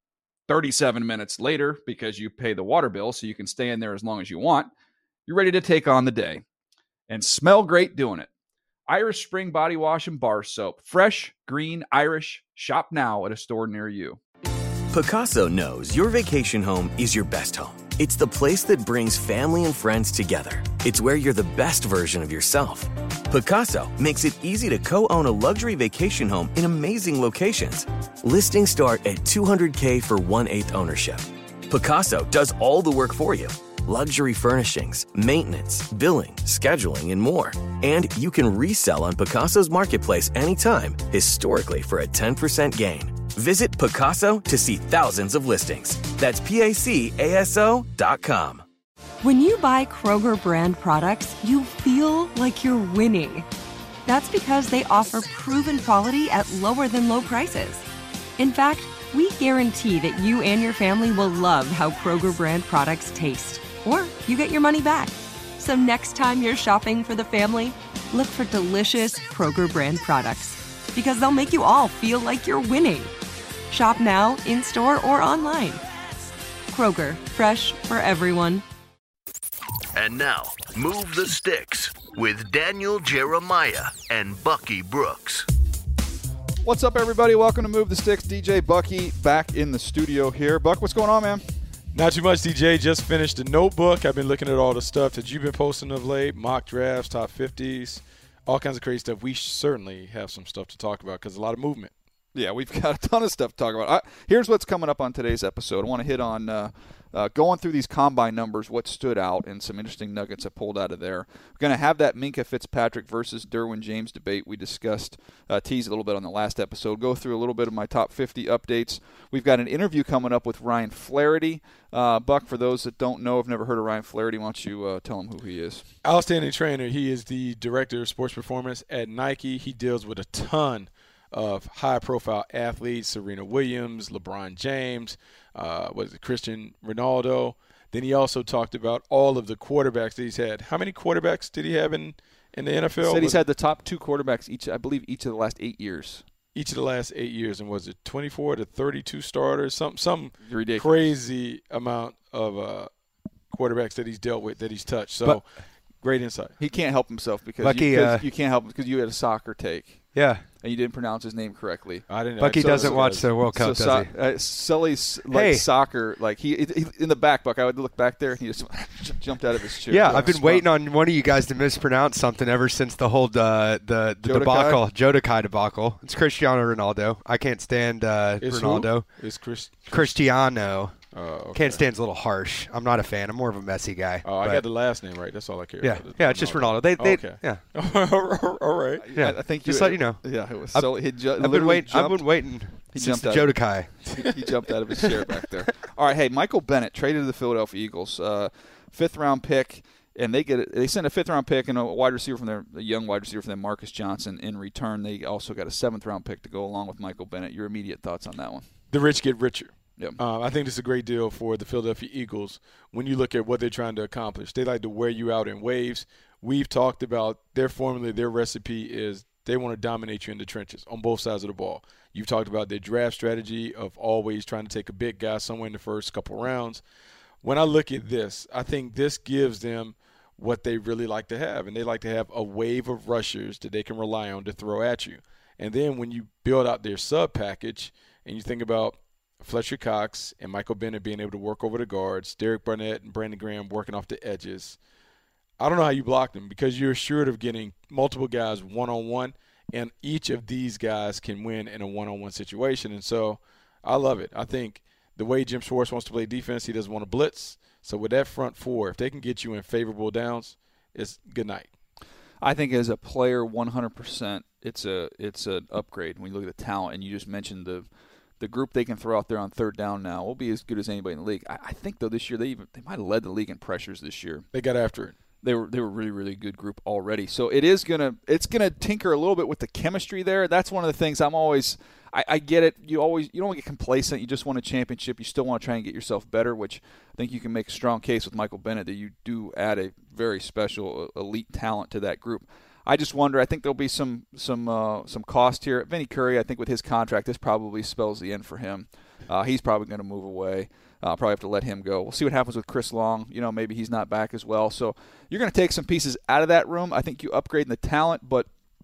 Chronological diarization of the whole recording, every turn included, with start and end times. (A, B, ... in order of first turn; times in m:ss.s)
0:00.5-0:04.7 A
0:05.3-0:06.4 A
0:07.1-0:08.3 A
0:08.9-0:14.2 A
0:14.9-0:48.6 B
0:49.2-0:53.5 C
0:54.1-0:57.8 C
0:58.4-1:13.1 C
1:13.7-1:15.8 C
1:16.7-1:18.6 C
1:19.9-1:25.4 D
1:26.6-1:31.4 A
1:31.9-1:41.9 E
1:42.3-2:05.8 A
2:06.0-2:23.4 E
2:23.0-2:26.2 A
2:26.5-2:32.9 E
2:30.4-2:31.1 A
2:33.5-2:36.6 E
2:36.6-2:50.6 A
2:37.6-2:38.2 F
2:40.1-2:40.4 F
2:42.1-2:43.4 E
2:42.4-2:44.2 F
2:45.3-2:45.7 F
2:49.9-3:04.6 F
2:50.1-2:50.4 E
2:54.2-2:54.8 A
2:58.4-3:00.4 E
3:01.1-3:01.8 E
3:04.2-3:09.1 E
3:05.8-3:07.6 F
3:09.0-3:28.7 A
3:09.1-3:14.1 F
3:28.9-3:46.8 E
3:47.4-4:04.8 E
4:05.6-4:21.7 E
4:22.4-4:27.9 A
4:28.4-4:34.4 A
4:34.5-4:35.1 E
4:35.4-5:08.5 A